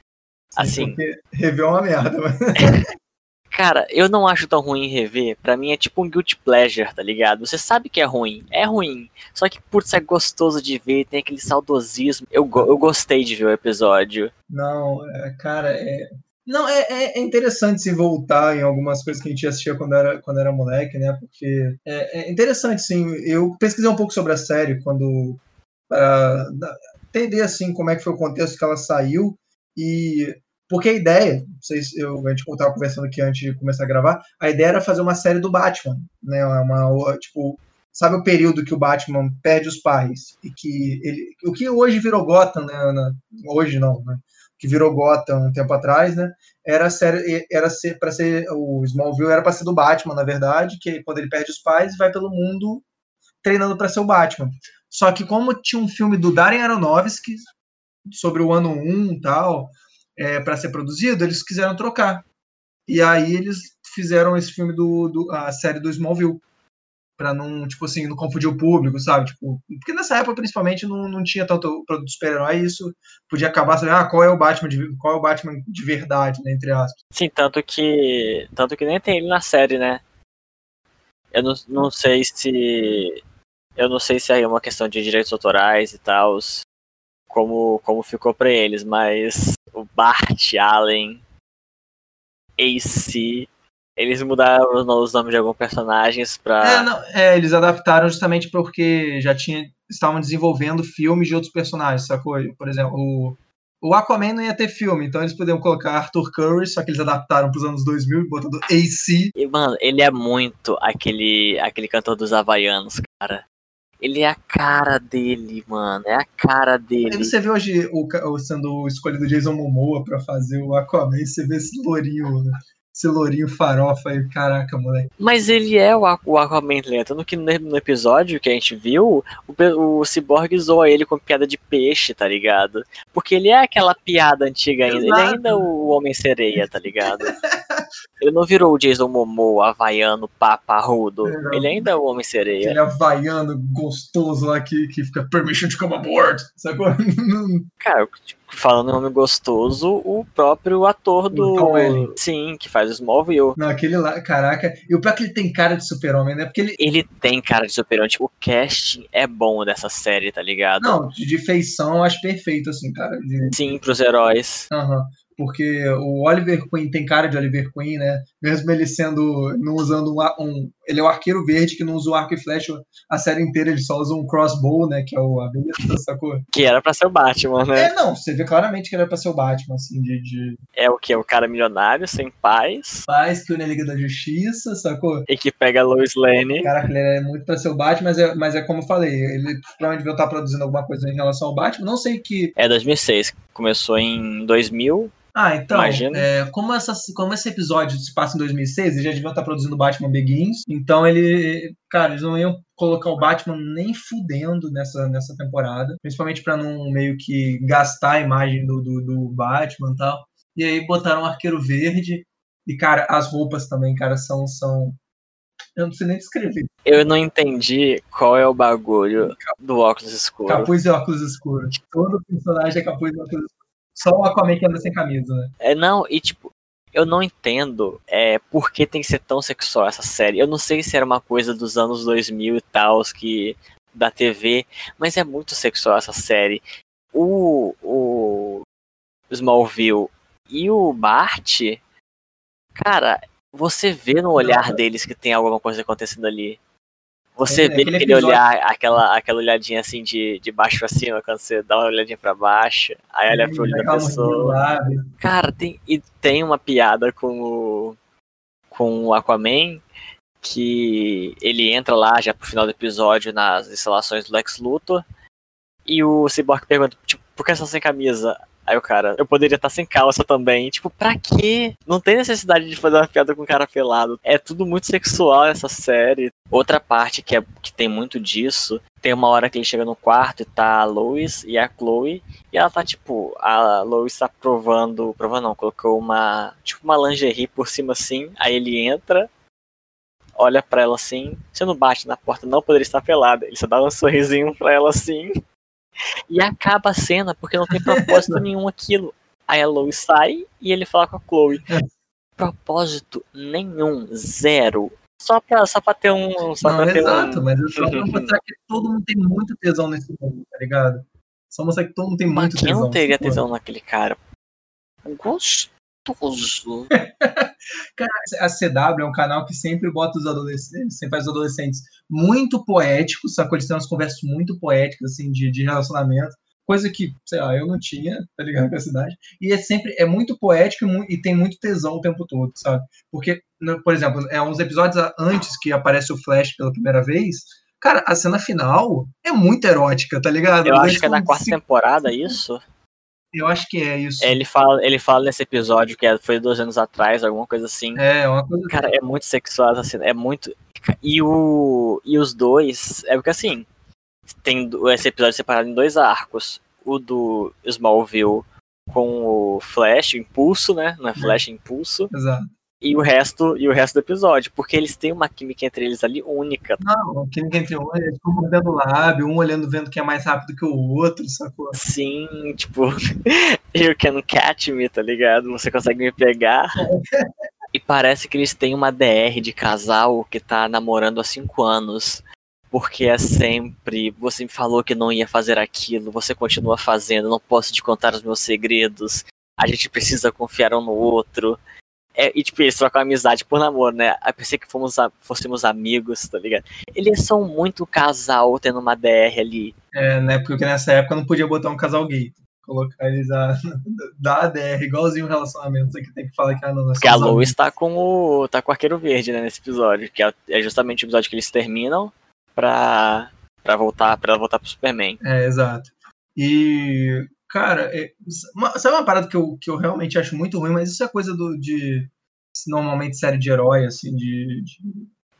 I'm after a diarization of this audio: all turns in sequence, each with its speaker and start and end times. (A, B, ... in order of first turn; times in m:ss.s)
0:00.6-0:01.0 A
0:00.6-0:02.8 B
0:03.5-0:14.3 A
0:14.5-0:52.8 B
0:53.4-0:57.4 B
0:58.1-1:02.2 B
1:02.9-1:06.4 B
1:07.2-1:16.9 B
1:17.1-1:20.0 A
1:21.3-1:23.2 A
1:23.8-1:26.6 A
1:27.3-1:31.2 A
1:32.6-1:36.9 A
1:36.6-1:49.3 B
1:49.4-1:53.4 A
1:54.0-1:57.3 A
1:57.1-2:05.1 B
2:05.2-2:17.4 A
2:14.9-2:15.7 B
2:17.2-2:17.8 B
2:18.2-2:22.8 A
2:21.2-2:21.9 B
2:22.6-2:27.6 B
2:27.8-2:33.6 A
2:31.3-2:32.1 B
2:33.6-2:36.8 B
2:36.8-2:41.0 A
2:40.8-2:43.6 B
2:43.5-2:44.7 A
2:44.7-2:56.4 B
2:56.5-2:57.9 A
2:57.7-3:00.6 B
3:00.8-3:03.1 A
3:03.1-3:05.3 B
3:05.3-3:06.7 A
3:06.6-3:12.5 B
3:12.6-3:15.1 A
3:15.3-3:35.0 B
3:15.7-3:16.3 A
3:35.8-3:36.7 B
3:36.8-3:40.7 A
3:39.2-3:39.5 B
3:40.5-3:45.5 B
3:45.6-3:58.6 A
3:59.3-4:01.8 A
4:02.8-4:06.6 A
4:04.4-4:04.8 B
4:07.4-4:14.6 A
4:07.4-4:08.4 B
4:13.3-4:15.0 B
4:15.2-4:18.0 A
4:18.7-4:19.8 A
4:20.4-4:25.0 A
4:25.8-4:49.3 A
4:50.4-4:55.3 A
4:56.3-5:01.6 A
5:02.4-5:08.3 A
5:06.6-5:13.4 B
5:12.3-5:14.2 A
5:15.0-5:16.9 A
5:16.9-5:42.4 B
5:40.6-5:42.6 A
5:43.3-5:44.4 B
5:44.2-5:48.0 A
5:47.9-5:48.8 B
5:48.7-5:53.7 A
5:54.3-6:02.1 A
6:01.2-6:01.4 B
6:02.1-6:02.5 B
6:02.8-6:06.8 A
6:06.8-6:11.8 B
6:11.7-6:16.9 A
6:16.8-6:17.2 B
6:17.7-6:31.6 A
6:32.2-6:39.7 A
6:39.9-6:47.6 B
6:47.0-6:55.2 A
6:55.2-7:05.1 B